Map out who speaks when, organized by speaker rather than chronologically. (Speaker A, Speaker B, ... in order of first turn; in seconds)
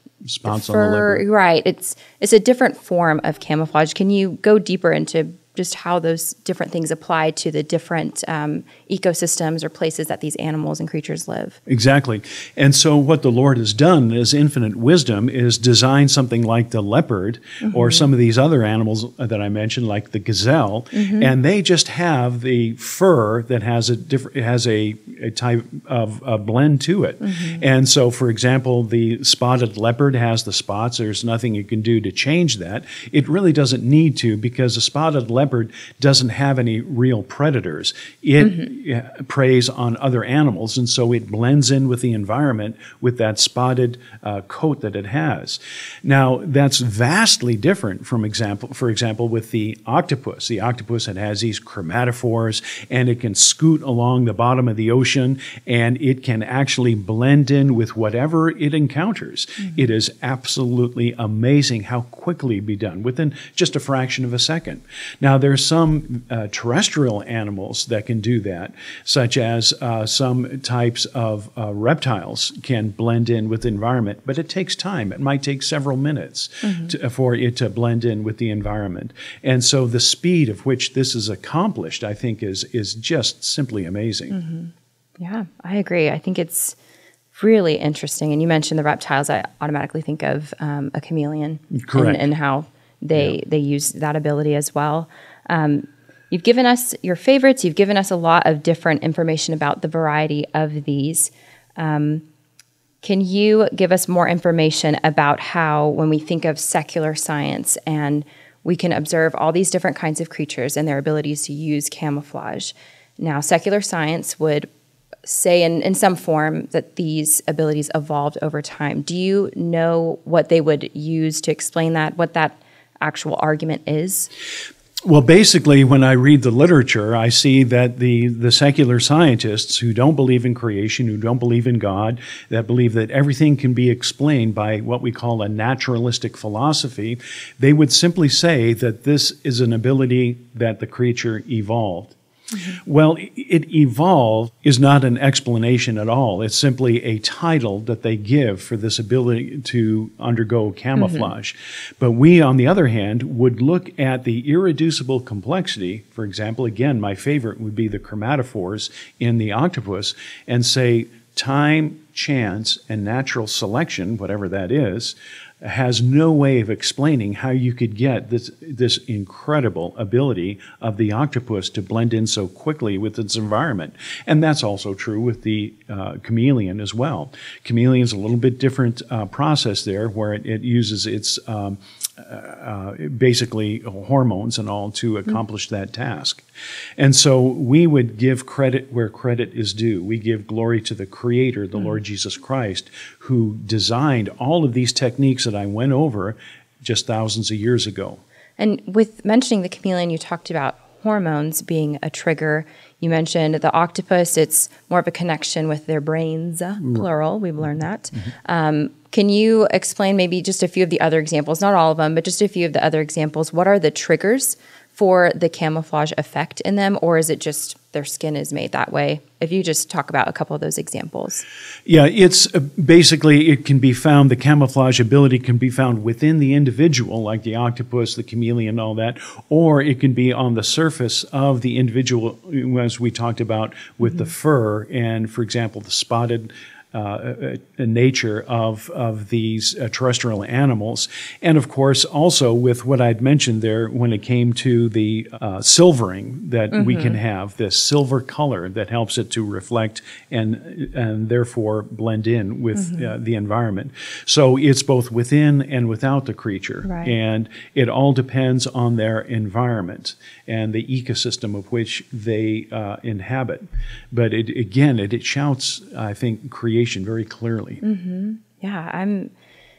Speaker A: 0.2-1.2, 11.7-84.4, 91.7-92.3, 125.1-142.2, 142.8-186.4, 187.0-198.2, 206.8-207.1, 221.9-267.8
Speaker B: 0.5-11.6, 17.6-18.1, 20.9-21.3, 27.2-27.6, 38.4-38.7, 76.6-77.0, 84.3-86.8, 87.3-102.2, 103.0-114.7, 115.3-124.3, 142.5-142.8, 151.0-151.3, 198.6-221.4, 246.7-247.2, 252.8-253.1, 256.8-257.1, 267.8-269.3